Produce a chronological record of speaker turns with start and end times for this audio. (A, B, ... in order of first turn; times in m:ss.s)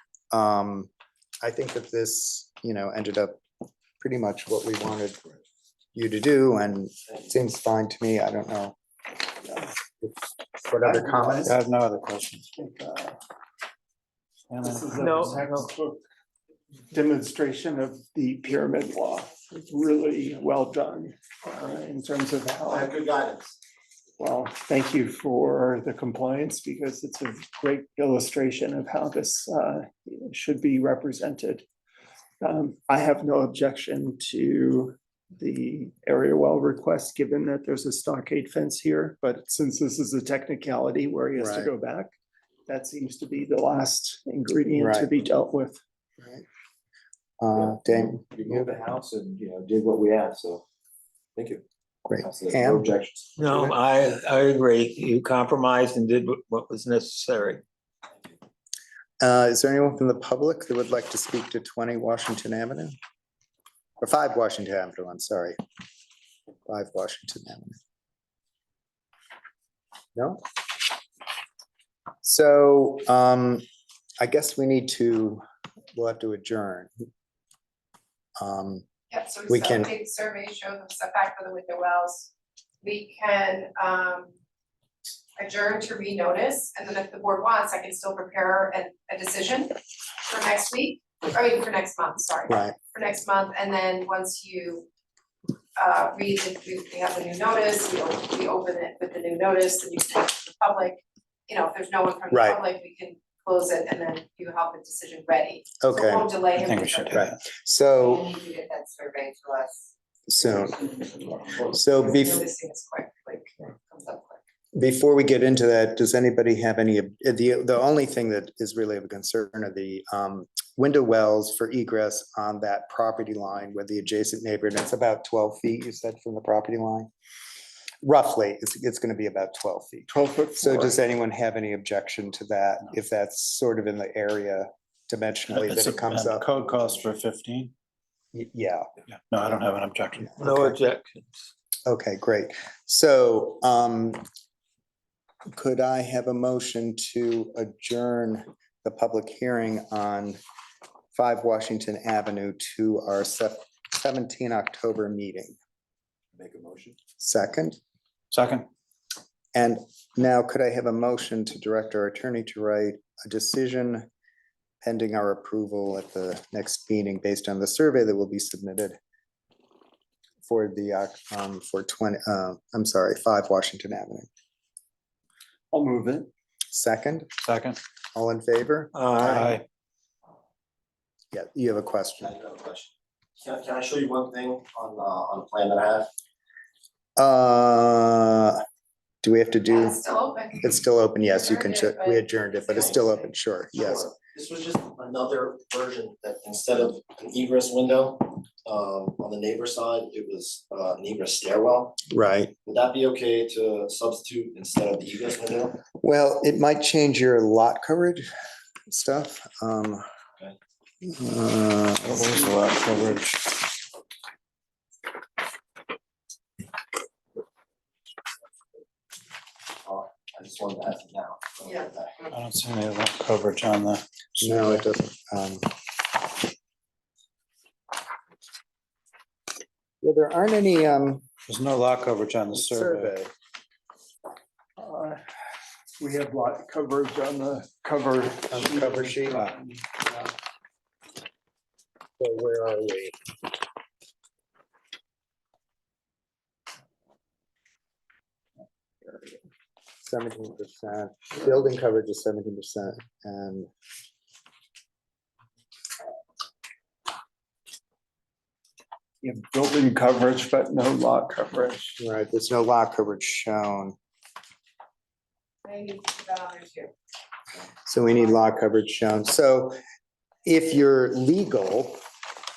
0:00.3-0:03.4 A
0:04.0-0:05.2 A
0:05.9-0:08.8 A
0:10.0-0:11.5 A
0:10.8-0:11.5 B
0:11.4-0:12.4 C
0:12.5-0:13.2 B
0:14.5-0:15.4 C
0:14.6-0:16.0 B
0:15.0-0:15.7 D
0:16.9-0:22.9 B
0:22.6-0:23.6 E
0:24.2-0:31.6 B
0:32.4-0:42.1 B
0:41.4-0:41.7 A
0:42.7-0:45.8 B
0:44.8-0:45.1 A
0:47.4-0:48.7 A
0:47.6-0:50.6 F
0:51.4-0:51.6 F
0:52.0-0:52.9 A
0:52.2-0:53.7 F
0:53.4-0:57.6 D
0:59.2-1:02.9 A
1:04.0-1:05.6 A
1:06.6-1:07.8 A
1:10.2-1:10.4 A
1:12.2-1:13.6 A
1:14.2-1:15.4 A
1:15.9-1:16.9 A
1:18.4-1:18.8 A
1:19.1-1:22.3 G
1:19.5-1:19.9 A
1:22.8-1:24.3 G
1:25.4-1:34.9 G
1:32.5-1:32.7 A
1:35.8-1:47.3 G
1:42.3-1:42.6 A
1:45.8-1:46.3 A
1:46.5-1:47.4 C
1:47.1-1:48.3 A
1:48.0-1:49.9 G
1:50.3-1:50.9 A
1:51.4-1:54.4 G
1:51.7-1:52.4 A
1:54.7-2:07.1 A
2:08.0-2:17.0 A
2:10.1-2:11.0 B
2:15.5-2:17.7 C
2:18.3-2:18.9 A
2:19.1-2:20.6 C
2:20.2-2:20.8 A
2:20.4-2:21.4 D
2:21.8-2:24.2 A
2:25.5-2:30.4 A
2:31.1-2:35.6 A
2:36.3-2:37.0 F
2:37.2-2:37.8 A
2:38.3-2:38.7 C
2:39.5-2:44.1 A
2:44.8-2:49.0 A
2:50.4-2:54.3 A
2:55.7-2:56.3 B
2:56.7-2:57.3 A
2:57.4-2:57.8 C
2:58.1-2:58.9 A
2:58.9-2:59.6 D
2:59.2-2:59.6 C
3:01.3-3:02.3 A
3:02.2-3:06.1 E
3:07.2-3:08.6 A
3:09.2-3:10.0 A
3:09.7-3:10.7 G
3:10.6-3:14.1 A
3:11.3-3:13.3 G
3:12.7-3:13.0 E
3:13.7-3:22.0 E
3:22.1-3:22.5 A
3:22.6-3:25.8 E
3:26.0-3:28.2 A
3:28.9-3:30.0 A
3:31.0-3:32.4 A
3:32.0-3:33.5 C
3:39.8-3:42.2 E
3:42.3-3:44.8 C
3:44.4-3:45.7 A
3:50.0-3:51.2 A
3:51.5-3:53.1 C
3:52.5-3:53.3 A
3:54.8-3:55.2 B
3:56.0-4:00.3 B
3:58.5-3:59.4 A
4:02.2-4:03.2 A
4:09.0-4:09.4 B
4:10.0-4:13.7 A
4:19.2-4:21.9 B
4:22.0-4:24.0 A
4:25.6-4:26.9 G
4:27.8-4:29.8 A
4:30.4-4:32.0 A